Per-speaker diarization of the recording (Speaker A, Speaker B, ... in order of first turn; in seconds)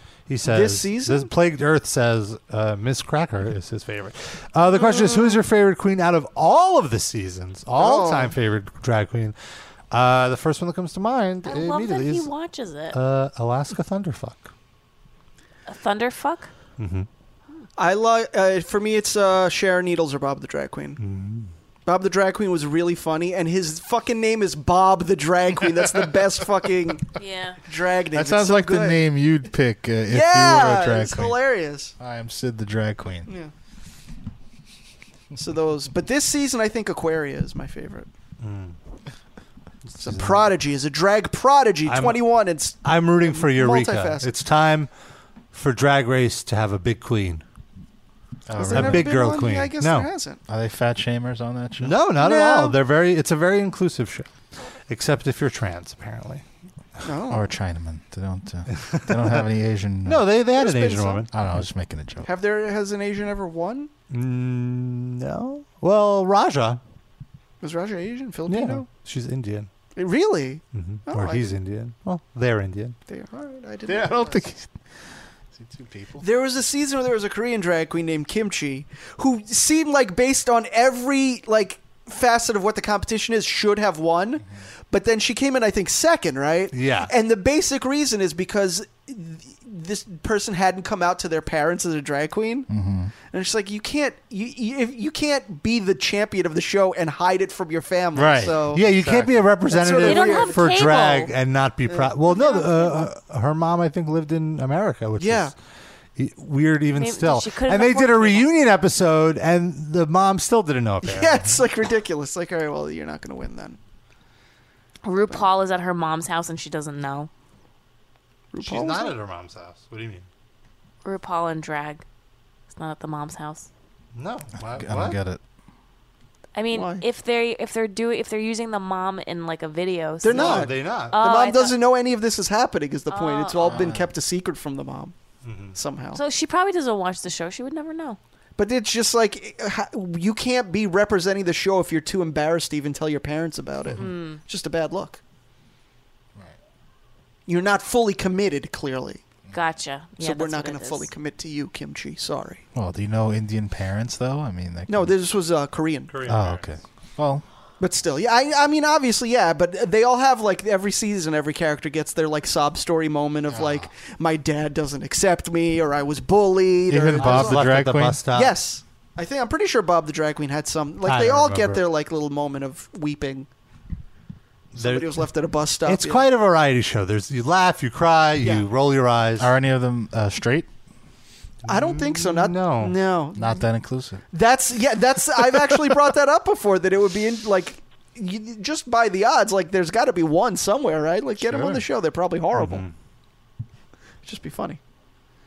Speaker A: 0.3-9.3, 9.9-12.3, 12.9-14.5, 16.8-17.1, 21.0-21.5, 38.4-38.8, 39.9-40.5, 41.9-42.2, 42.8-44.9, 45.5-47.4, 48.6-50.1, 51.8-54.3, 54.9-56.4, 58.7-59.4, 60.0-61.3, 64.1-66.8, 68.5-69.7, 70.7-73.0, 86.7-87.1, 98.7-105.5, 106.2-111.6, 118.6-120.3, 124.2-125.2, 130.3-131.2, 135.4-135.8, 156.1-156.6, 167.0-168.5, 171.0-171.8, 174.7-175.3, 175.8-179.5, 181.7-182.9, 192.5-192.9
Speaker B: 0.4-1.3, 7.8-8.3, 17.8-21.0, 21.9-27.1, 27.7-29.0, 30.1-31.9, 33.3-33.5, 35.4-38.1, 40.0-44.3, 48.5-50.4, 52.2-52.8, 57.0-57.5, 60.6-61.2, 62.2-63.9, 67.6-68.9, 69.9-71.6, 73.1-74.4, 76.2-92.7, 93.3-98.8, 99.7-100.6, 101.9-103.1, 105.2-105.5, 111.0-113.8, 118.5-119.2, 126.7-127.0, 130.2-135.1, 135.7-136.2, 138.6-145.2, 147.5-149.2, 150.2-152.6, 154.9-156.2, 157.8-167.7, 168.3-173.5, 174.7-176.3, 178.4-178.7, 181.7-183.7, 184.3-192.8, 194.2-194.8
Speaker C: 11.4-12.9, 15.7-16.5, 27.2-27.6, 100.0-101.3, 107.0-108.5, 115.0-117.3, 121.0-122.0, 122.7-123.7, 126.5-131.8, 133.1-133.7, 136.1-138.2, 143.9-144.4, 149.5-151.1
Speaker D: 28.1-31.4, 32.0-33.3, 48.5-49.1, 50.5-52.0, 57.3-60.2, 61.3-62.3, 73.9-74.7, 75.5-76.2, 92.7-93.1, 98.2-99.4, 124.6-125.4, 133.7-134.1, 152.7-155.1, 156.2-157.4, 166.9-168.2, 179.4-180.7, 183.4-184.2, 191.4-191.8